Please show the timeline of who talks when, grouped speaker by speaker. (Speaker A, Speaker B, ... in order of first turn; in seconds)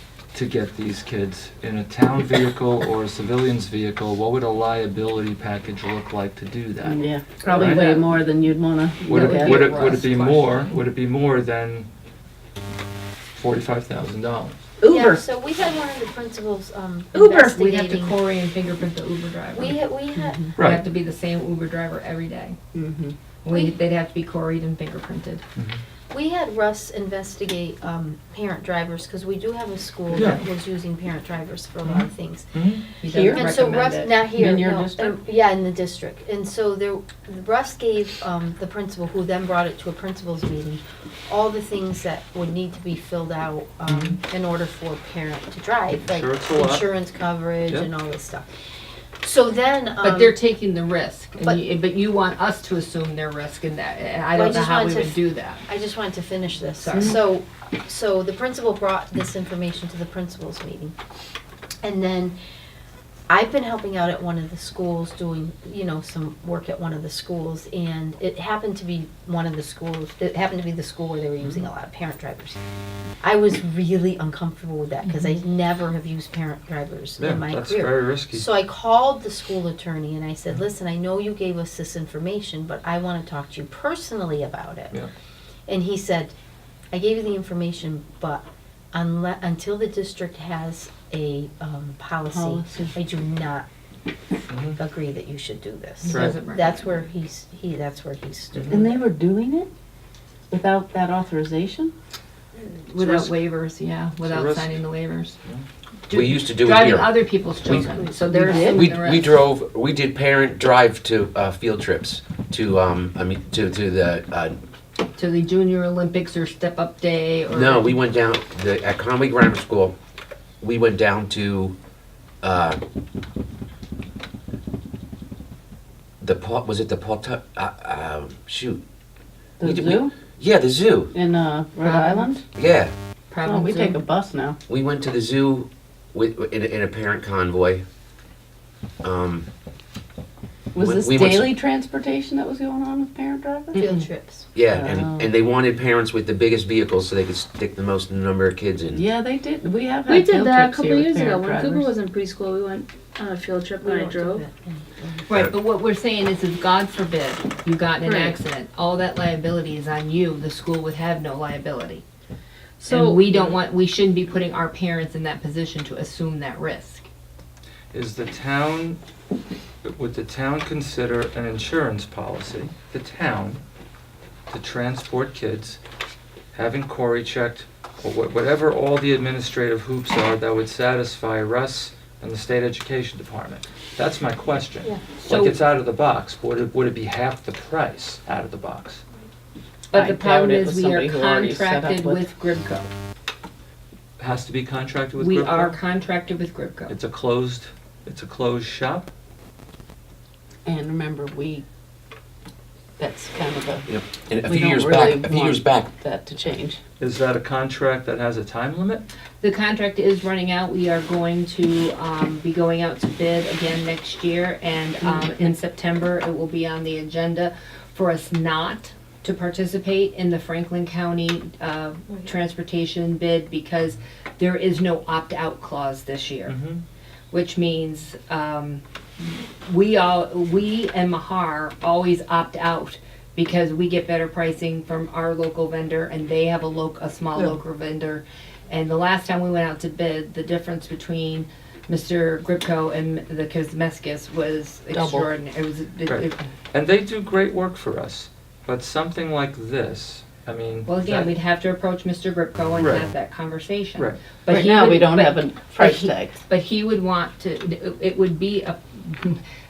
Speaker A: 0.3-7.0, 7.5-8.0, 9.1-11.9, 13.4-14.6, 20.6-20.8, 25.6-25.8, 30.1-30.4, 31.8-32.9, 43.9-44.2, 46.0-47.0, 77.2-78.5, 94.5-94.8, 96.1-96.3, 98.5-98.8, 104.2-104.8, 167.9-169.0, 169.8-173.6, 174.5-175.8, 176.5-189.0, 194.2-195.8, 196.9-199.1, 207.0-209.1, 226.5-226.8, 245.0-245.2, 246.1-251.3, 252.8-253.0, 254.0-254.2
Speaker B: 6.8-9.9, 14.8-15.2, 22.7-23.1, 33.1-33.5, 34.3-35.2, 92.3-93.0, 98.7-99.7, 100.5-101.9, 103.0-103.3, 108.1-108.9, 129.6-130.1, 131.1-132.4, 133.4-134.6, 140.7-144.1, 144.7-145.3, 148.9-151.9, 189.9-192.2, 200.7-201.7, 203.0-203.9, 204.4-206.8, 215.0-215.5, 244.9-245.2, 254.5-256.4
Speaker C: 9.1-10.6, 17.1-19.8, 20.6-22.6, 23.4-25.4, 33.0-34.2, 50.0-55.6, 56.8-57.2, 96.0-96.7, 102.6-105.4, 106.1-109.4, 115.2-117.9, 131.8-132.3, 133.3-134.0, 155.3-162.0, 162.9-167.1, 185.0-185.6, 189.9-192.9, 195.2-196.9, 209.4-226.5, 227.3-246.4, 250.9-259.4
Speaker D: 9.8-10.0, 14.9-18.2, 19.5-20.5, 26.1-48.5, 49.2-50.4, 54.3-61.0, 61.8-62.4, 63.3-72.6, 73.2-85.0, 85.7-86.3, 86.9-93.7, 94.6-99.0, 143.8-144.5, 153.8-155.3
Speaker E: 106.1-108.0, 108.6-114.6, 117.5-120.0, 120.6-121.8, 122.4-122.8, 126.2-128.8, 129.6-131.1, 132.6-132.9, 134.7-137.8, 139.0-139.5, 140.8-141.5, 144.6-149.1, 203.9-205.9
Speaker F: 150.1-154.4, 158.0-158.4, 162.8-163.6